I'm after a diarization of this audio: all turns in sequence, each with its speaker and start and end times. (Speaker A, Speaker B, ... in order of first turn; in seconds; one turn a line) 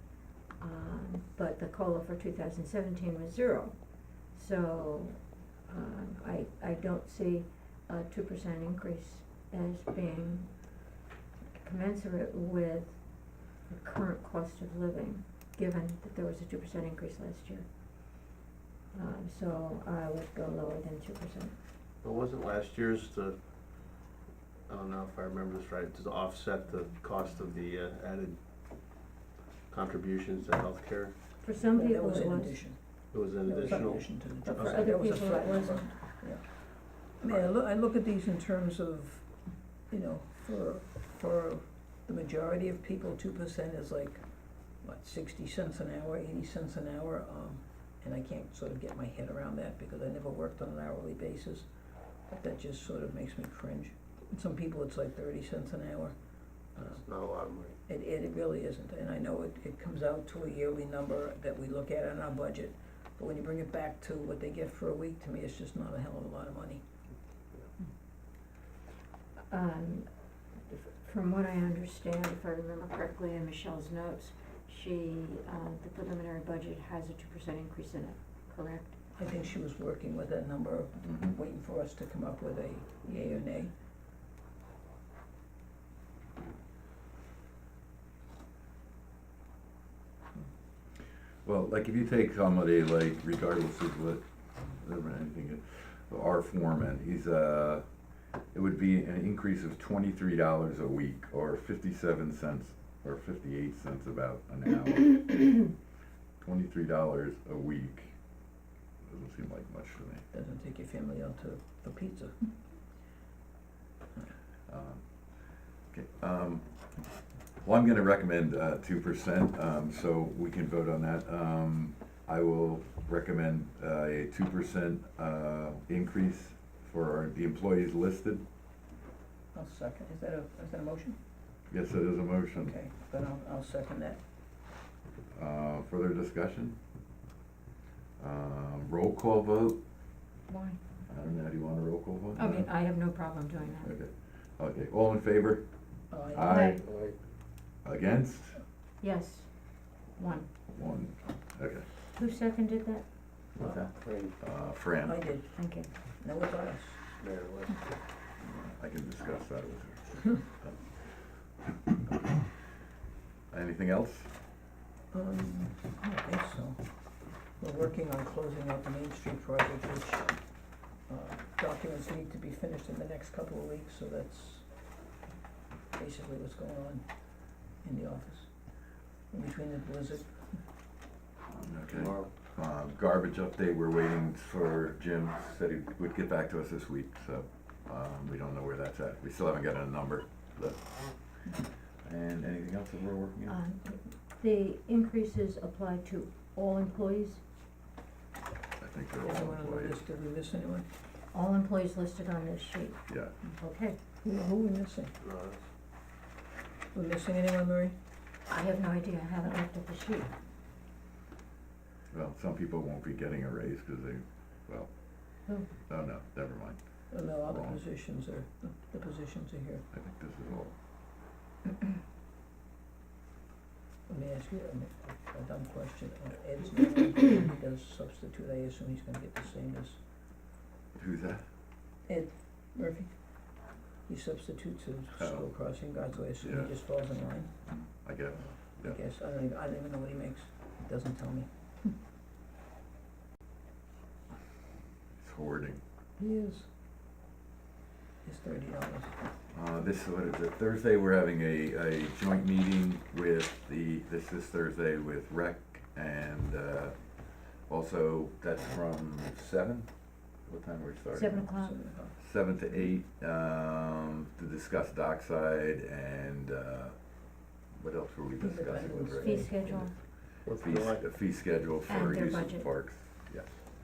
Speaker A: 0.6-3.8
Speaker A: 4.3-10.5
Speaker A: 11.5-17.6
Speaker A: 18.9-21.5
Speaker B: 22.0-23.4
Speaker B: 24.7-28.4
Speaker B: 29.7-31.2
Speaker A: 31.4-32.6
Speaker C: 31.7-44.2
Speaker B: 33.1-34.9
Speaker A: 34.4-35.9
Speaker C: 44.8-51.7
Speaker C: 52.3-56.2
Speaker C: 56.7-57.0
Speaker B: 56.8-57.8
Speaker C: 57.9-66.8
Speaker A: 69.5-70.1
Speaker A: 70.6-79.0
Speaker C: 79.2-83.7
Speaker D: 81.0-81.3
Speaker D: 91.4-97.8
Speaker D: 98.5-105.6
Speaker D: 106.4-108.1
Speaker D: 109.0-110.2
Speaker C: 110.3-112.5
Speaker D: 114.7-115.0
Speaker D: 115.9-116.7
Speaker D: 117.6-128.4
Speaker C: 129.5-131.2
Speaker D: 131.7-132.8
Speaker C: 132.6-134.2
Speaker D: 135.3-136.8
Speaker D: 138.2-139.8
Speaker A: 140.5-140.8
Speaker D: 141.1-142.7
Speaker A: 142.3-143.9
Speaker D: 143.8-145.7
Speaker C: 146.1-146.6
Speaker D: 146.2-146.8
Speaker A: 146.5-146.8
Speaker B: 146.7-147.2
Speaker D: 147.8-148.6
Speaker A: 149.0-149.5
Speaker A: 150.1-150.5
Speaker D: 150.7-151.9
Speaker A: 152.1-153.1
Speaker B: 153.6-154.3
Speaker D: 153.6-155.2
Speaker C: 155.0-155.5
Speaker A: 155.6-155.9
Speaker C: 156.2-157.0
Speaker B: 157.2-157.9
Speaker D: 158.4-161.5
Speaker D: 163.5-164.3
Speaker C: 165.1-166.9
Speaker C: 167.6-170.4
Speaker C: 171.1-174.6
Speaker C: 175.9-177.0
Speaker C: 177.8-178.5
Speaker C: 179.3-180.6
Speaker D: 181.5-193.6
Speaker B: 181.9-182.3
Speaker A: 193.5-197.4
Speaker D: 198.8-200.0
Speaker C: 199.2-200.9
Speaker A: 201.3-204.0
Speaker D: 203.1-203.3
Speaker C: 204.2-205.2
Speaker B: 205.2-205.6
Speaker C: 206.9-207.9
Speaker A: 208.5-210.3
Speaker D: 212.1-214.9
Speaker D: 215.9-217.8
Speaker C: 217.1-219.8
Speaker D: 219.9-220.7
Speaker C: 224.1-230.0
Speaker D: 230.9-231.4
Speaker C: 232.1-233.1
Speaker C: 234.1-237.5
Speaker D: 235.2-235.5
Speaker D: 236.4-236.7
Speaker D: 237.7-239.0
Speaker C: 238.6-241.9
Speaker D: 245.2-245.8
Speaker C: 246.2-246.7
Speaker C: 248.2-249.2
Speaker D: 249.5-261.5
Speaker A: 261.1-261.8
Speaker C: 261.5-262.1
Speaker D: 262.2-267.0
Speaker D: 267.7-269.9
Speaker C: 268.4-269.8
Speaker A: 269.1-269.9
Speaker B: 270.4-271.0
Speaker D: 270.5-273.6
Speaker A: 271.9-272.7